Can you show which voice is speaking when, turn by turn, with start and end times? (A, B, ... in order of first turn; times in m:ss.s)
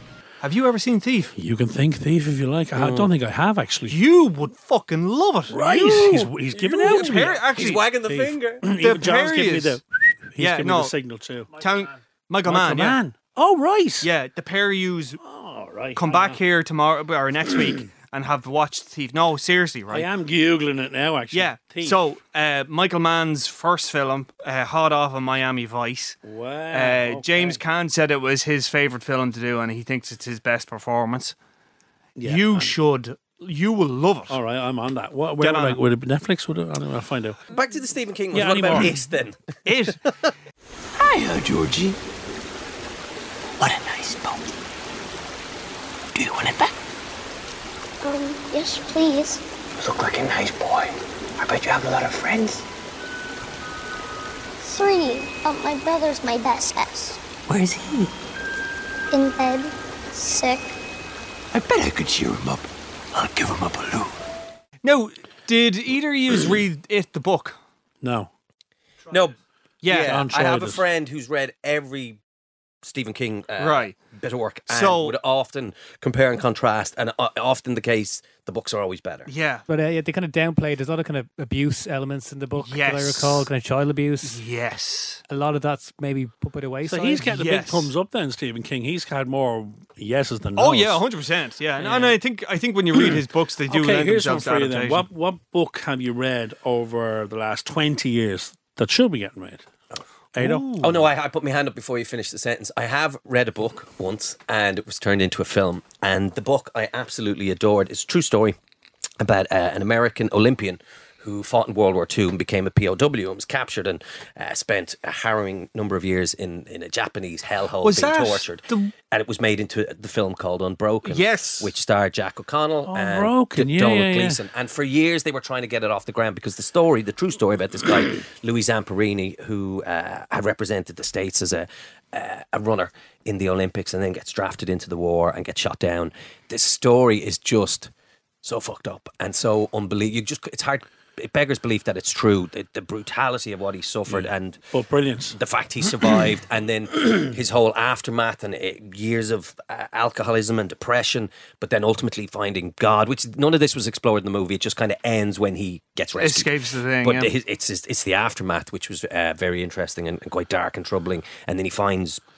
0:00.4-0:01.3 A
0:01.4-0:04.0 B
0:03.9-0:07.8 A
0:05.5-0:11.5 B
0:07.5-0:08.6 C
0:08.7-0:09.8 A
0:10.4-0:10.9 A
0:11.6-0:13.0 A
0:12.5-0:14.1 B
0:14.0-0:15.2 A
0:15.2-0:16.4 B
0:16.0-0:20.0 A
0:19.9-0:22.0 B
0:21.3-0:26.2 A
0:26.2-0:27.6 B
0:26.7-0:31.3 A
0:32.2-0:32.7 B
0:32.2-0:34.4 A
0:34.3-0:37.4 B
0:35.4-0:35.8 A
0:37.5-0:40.1 C
0:38.3-0:38.9 B
0:39.7-0:40.0 A
0:41.0-0:41.9 D
0:43.6-0:44.3 D
0:48.0-0:49.4 E
0:54.6-0:57.2 E
0:59.1-1:00.8 E
1:01.6-1:02.0 D
1:04.8-1:07.6 A
1:08.0-1:08.3 B
1:09.1-1:09.4 C
1:09.8-1:10.2 A
1:09.9-1:12.2 C
1:09.9-1:10.8 B
1:12.8-1:19.3 C
1:13.6-1:13.9 A
1:14.7-1:15.2 A
1:19.3-1:19.6 A
1:19.7-1:24.4 F
1:22.6-1:23.5 A
1:24.2-1:25.2 A
1:25.3-1:27.4 F
1:26.8-1:31.0 B
1:27.2-1:27.9 A
1:30.6-1:35.0 A
1:31.8-1:32.2 B
1:32.9-1:39.6 B
1:40.3-1:41.0 B
1:40.8-1:48.6 C
1:49.2-2:17.9 C
1:57.8-1:58.9 A
2:01.0-2:01.7 A
2:02.8-2:04.4 B
2:18.4-2:24.6 C
2:24.1-2:25.4 B
2:25.3-2:42.2 C
2:36.2-2:37.3 A